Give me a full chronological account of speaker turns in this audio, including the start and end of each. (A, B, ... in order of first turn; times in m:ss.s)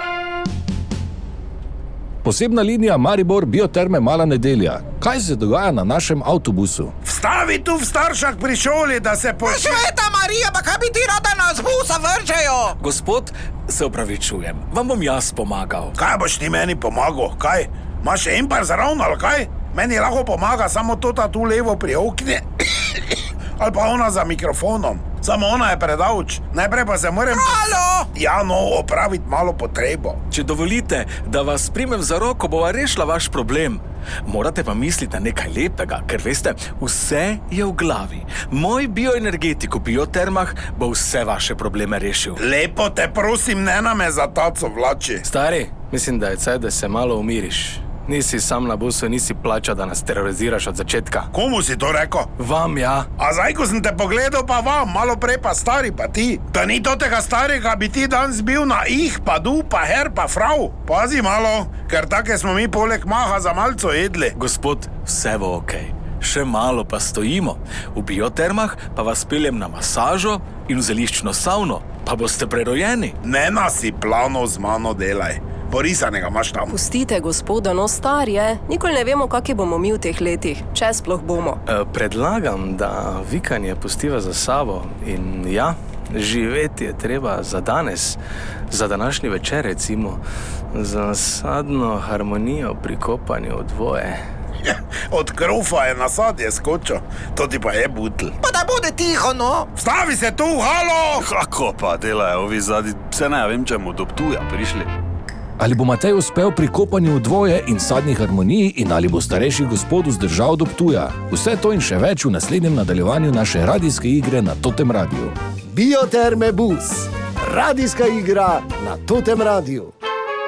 0:02.2-0:06.9 A
0:07.0-0:09.9 B
0:09.4-0:12.7 C
0:12.8-0:15.9 D
0:16.0-0:30.2 B
0:27.3-0:28.0 C
0:30.3-0:42.4 D
0:42.4-0:45.2 B
0:45.3-0:51.3 E
0:51.3-0:52.3 B
0:52.4-0:53.1 E
0:53.2-1:04.3 B
1:04.4-1:13.2 D
1:13.2-1:16.7 B
1:16.7-1:21.6 F
1:21.7-1:28.2 E
1:28.7-1:30.2 E
1:30.7-1:34.2 E
1:34.6-1:38.3 B
1:38.4-1:39.7 C
1:39.8-1:41.2 B
1:41.2-1:44.9 G
1:45.6-1:55.3 A
1:55.7-1:59.9 H